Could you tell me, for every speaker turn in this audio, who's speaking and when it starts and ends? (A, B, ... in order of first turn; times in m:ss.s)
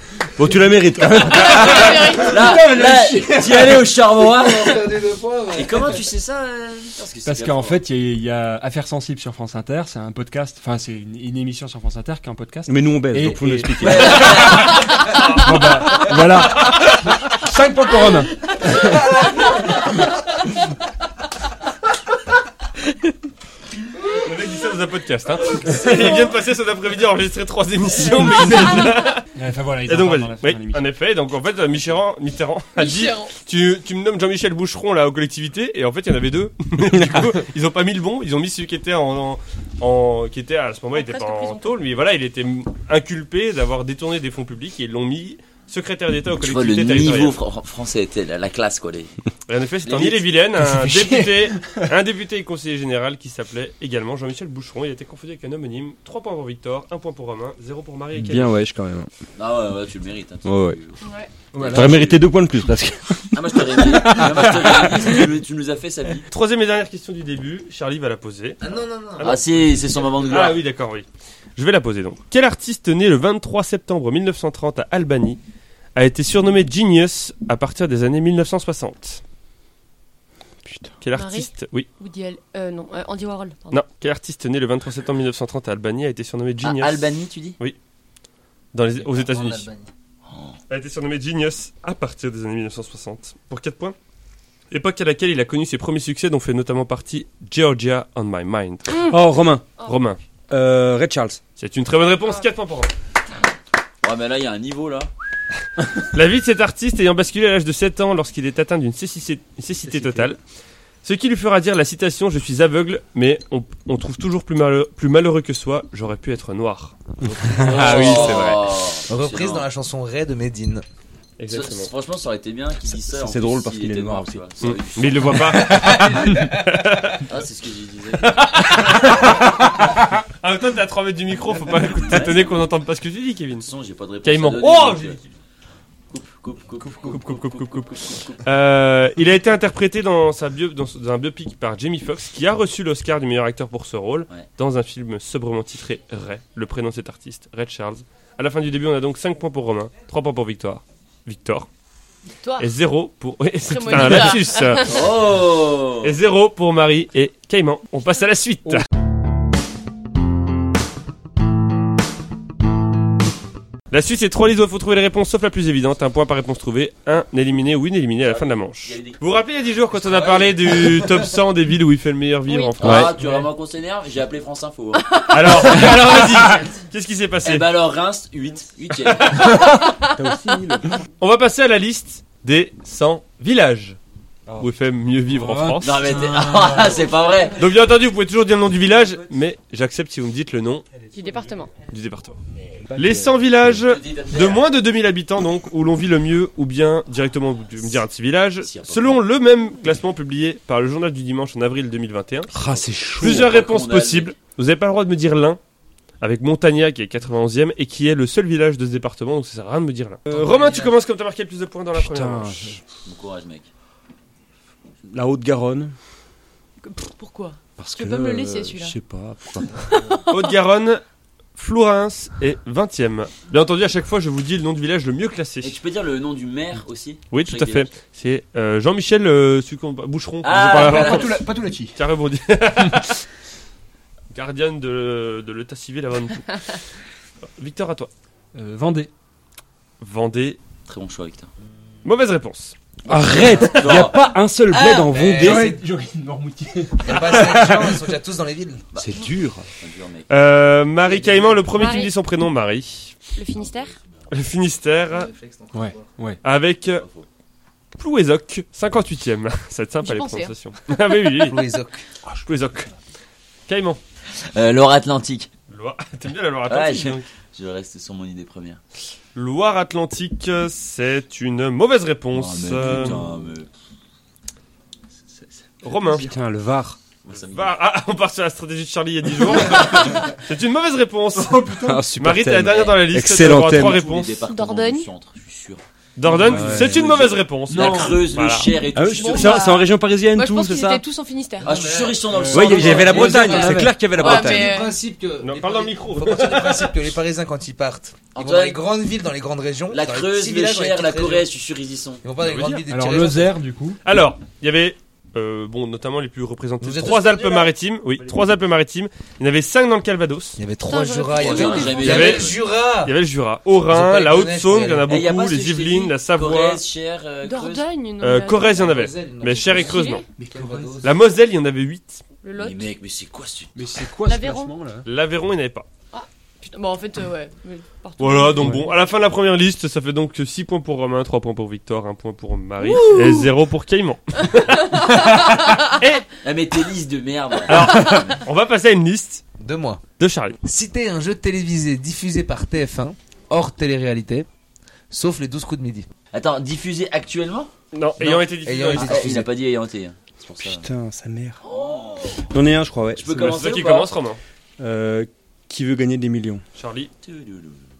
0:00.4-0:02.0 A
0:01.0-0:03.7 B
0:01.3-0:02.5 C
0:02.2-0:04.9 D
0:04.2-0:06.1 E
0:05.5-0:07.8 D
0:07.2-0:19.0 B
0:12.7-0:14.2 A
0:13.8-0:14.8 D
0:15.1-0:16.0 F
0:16.5-0:16.9 F
0:24.1-0:29.2 F
0:28.1-0:30.8 B
0:29.9-0:47.4 F
0:32.8-0:33.3 C
0:40.9-0:41.8 C
0:46.4-0:49.1 D
0:49.5-0:58.5 F
0:49.8-0:50.2 D
0:50.6-0:51.8 B
0:58.1-0:59.1 A
0:59.4-1:01.0 D
1:00.4-1:00.8 A
1:01.0-1:01.3 C
1:01.5-1:02.0 B
1:01.6-1:02.3 D
1:01.7-1:04.5 A
1:03.3-1:06.3 D
1:06.3-1:08.6 F
1:08.6-1:10.5 E
1:09.2-1:09.4 F
1:09.2-1:10.6 D
1:10.2-1:15.4 F
1:16.0-1:19.2 F
1:20.6-1:20.9 A
1:21.0-1:21.9 F
1:21.1-1:23.8 C
1:23.7-1:27.8 F
1:26.6-1:27.6 D
1:28.7-1:29.7 F
1:29.0-1:29.9 E
1:30.3-1:30.6 D
1:30.7-1:34.0 F
1:34.7-1:39.0 F
1:39.1-1:39.6 A
1:39.8-1:40.2 F
1:40.5-1:41.4 A
1:41.6-1:42.9 F
1:44.0-1:45.1 D
1:46.0-1:50.4 F
1:51.0-1:56.9 F
1:57.2-1:58.5 E
1:57.6-1:58.5 A
1:57.6-1:58.6 F
1:57.6-1:59.6 D
1:59.1-2:00.8 E
2:01.4-2:01.9 F
2:01.5-2:06.5 D
2:03.1-2:04.4 A
2:04.6-2:07.2 F
2:05.6-2:06.2 E
2:07.2-2:08.5 D
2:08.2-2:09.8 F
2:10.4-2:13.7 F
2:11.9-2:12.6 D
2:13.6-2:15.2 D
2:14.2-2:15.3 F
2:16.1-2:18.4 D
2:17.0-2:31.7 F
2:32.4-2:32.7 C
2:32.6-2:34.9 F
2:33.6-2:35.2 C
2:34.8-2:36.2 D
2:36.0-2:38.8 F
2:43.9-2:53.1 F
2:48.2-2:49.2 D
2:52.5-2:52.9 C
2:52.8-2:55.1 D
2:52.8-2:53.1 A
2:55.0-2:56.1 C
2:55.3-2:57.7 F
2:57.4-2:59.5 D
2:59.2-2:59.6 F
2:59.5-3:00.5 C
3:00.0-3:00.9 A
3:01.2-3:04.0 F
3:04.6-3:06.0 F
3:05.3-3:07.1 B
3:05.8-3:07.6 D
3:07.6-3:10.8 F
3:11.1-3:11.7 C
3:11.1-3:11.5 B
3:11.8-3:12.4 F
3:12.9-3:13.2 B
3:13.0-3:22.5 F
3:13.7-3:14.6 D
3:18.6-3:19.2 D
3:22.5-3:23.5 A
3:23.2-3:25.6 F
3:23.2-3:24.3 D
3:26.2-3:32.8 F
3:31.9-3:32.8 A
3:33.0-3:33.7 D
3:35.1-3:35.9 A
3:36.8-3:39.0 C
3:37.8-3:39.7 A
3:39.9-3:40.4 C
3:40.3-3:41.0 F
3:41.6-3:45.7 F
3:45.6-3:47.9 D
3:47.3-3:51.4 F
3:50.4-3:51.4 D
3:50.6-3:52.0 B
3:51.9-3:53.2 F
3:54.3-3:56.7 F
3:57.6-3:58.1 F
3:58.5-3:59.1 B
4:00.0-4:00.6 F
4:00.9-4:01.5 D
4:02.0-4:02.7 F
4:03.1-4:03.6 A
4:03.1-4:08.0 B
4:03.2-4:04.2 D
4:05.1-4:05.8 E
4:07.0-4:08.8 E
4:08.9-4:10.3 D
4:08.9-4:09.6 A
4:10.3-4:13.2 F
4:11.7-4:12.1 C
4:13.3-4:14.0 C
4:14.3-4:15.3 F
4:15.1-4:16.0 E
4:15.7-4:16.4 B
4:16.4-4:17.0 F
4:17.0-4:17.3 D
4:18.0-4:21.6 F
4:20.0-4:20.5 C
4:21.4-4:22.0 E
4:22.4-4:22.9 F
4:23.7-4:24.0 F
4:24.3-4:25.5 D
4:25.7-4:27.2 F
4:26.7-4:28.8 D
4:29.3-4:33.2 F
4:32.3-4:33.7 D
4:35.8-4:36.3 F
4:36.0-4:36.3 B
4:36.1-4:37.0 A
4:37.2-4:37.8 D
4:37.4-4:44.4 F
4:41.4-4:42.0 B
4:41.8-4:44.0 A
4:42.6-4:43.1 D
4:43.6-4:45.8 D
4:44.4-4:45.1 C
4:46.2-4:48.7 F
4:46.3-4:47.0 B
4:46.4-4:47.0 A
4:46.6-4:49.7 D
4:47.7-4:48.2 B
4:48.9-4:51.0 A
4:49.1-4:51.9 C
4:51.6-4:53.4 D
4:51.6-5:01.5 E
4:52.3-4:54.0 B
4:52.5-4:54.7 A
4:52.9-4:55.0 C
4:55.4-4:57.0 F
4:58.3-4:58.8 D
4:59.9-5:02.2 D
5:02.2-5:03.6 E
5:02.4-5:02.8 F
5:02.9-5:04.0 B
5:04.0-5:10.6 F
5:06.8-5:07.7 E
5:10.6-5:13.1 E
5:10.8-5:12.4 C
5:11.4-5:12.6 D
5:12.0-5:16.8 F
5:13.9-5:15.1 E
5:15.1-5:17.8 D
5:17.4-5:19.0 C
5:18.2-5:20.2 F
5:18.7-5:21.2 E
5:19.7-5:20.3 C
5:20.3-5:21.1 B
5:21.0-5:22.2 F
5:22.4-5:22.9 C
5:22.6-5:23.9 D
5:23.7-5:25.1 B
5:24.2-5:24.7 C
5:25.0-5:25.9 F
5:26.1-5:28.9 C
5:28.2-5:35.4 F
5:28.6-5:28.9 B
5:32.8-5:33.4 C
5:34.5-5:36.0 C
5:36.0-5:36.2 F
5:36.4-5:38.4 D
5:37.7-5:39.4 F
5:37.8-5:38.4 C
5:39.6-5:40.0 E
5:40.2-5:40.6 F
5:40.6-5:44.5 E
5:45.1-5:46.1 E
5:46.3-5:47.7 D
5:47.9-5:49.4 F
5:48.2-5:49.5 E
5:49.0-5:50.8 D
5:50.6-5:51.6 A
5:51.6-5:52.5 D
5:52.4-5:53.4 A
5:53.1-5:54.1 D
5:53.3-5:54.4 F
5:54.8-5:56.6 A
5:56.8-5:57.1 F
5:57.2-5:57.8 D